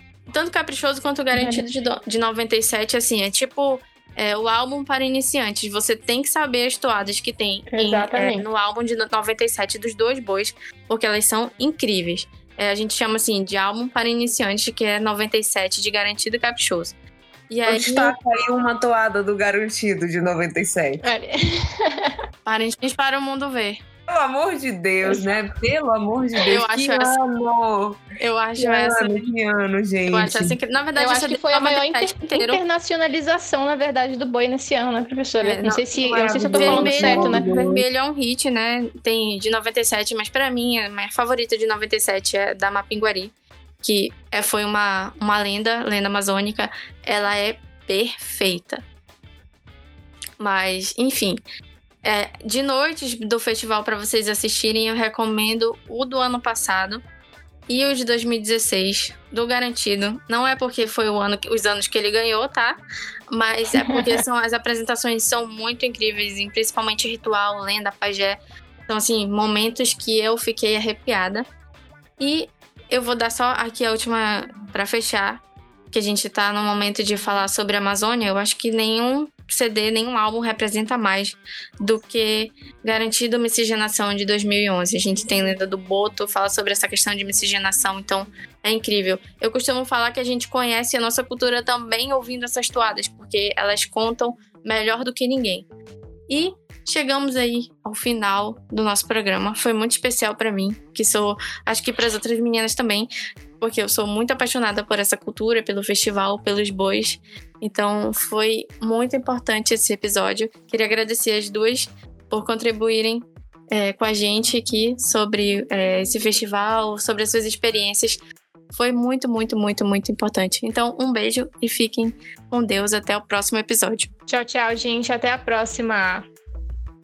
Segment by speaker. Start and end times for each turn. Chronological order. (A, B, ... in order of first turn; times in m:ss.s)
0:00.3-0:17.0 A
0:01.4-0:01.7 B
0:07.7-0:08.5 B
0:17.5-0:18.1 A
0:17.7-0:21.0 C
0:21.0-0:22.1 B
0:22.4-0:23.8 A
0:24.1-0:28.0 C
0:26.5-0:27.2 A
0:28.2-0:29.3 A
0:28.6-0:30.6 C
0:30.1-0:32.6 A
0:31.0-0:37.5 B
0:35.4-0:35.8 A
0:36.0-0:37.8 C
0:36.5-0:48.8 A
0:50.4-0:51.4 A
0:52.0-0:57.0 A
0:57.7-1:02.8 A
1:03.3-1:11.5 A
1:03.8-1:04.0 B
1:12.2-1:35.7 A
1:36.3-1:43.1 A
1:43.6-1:58.2 A
1:58.7-2:04.1 A
2:04.3-2:06.3 B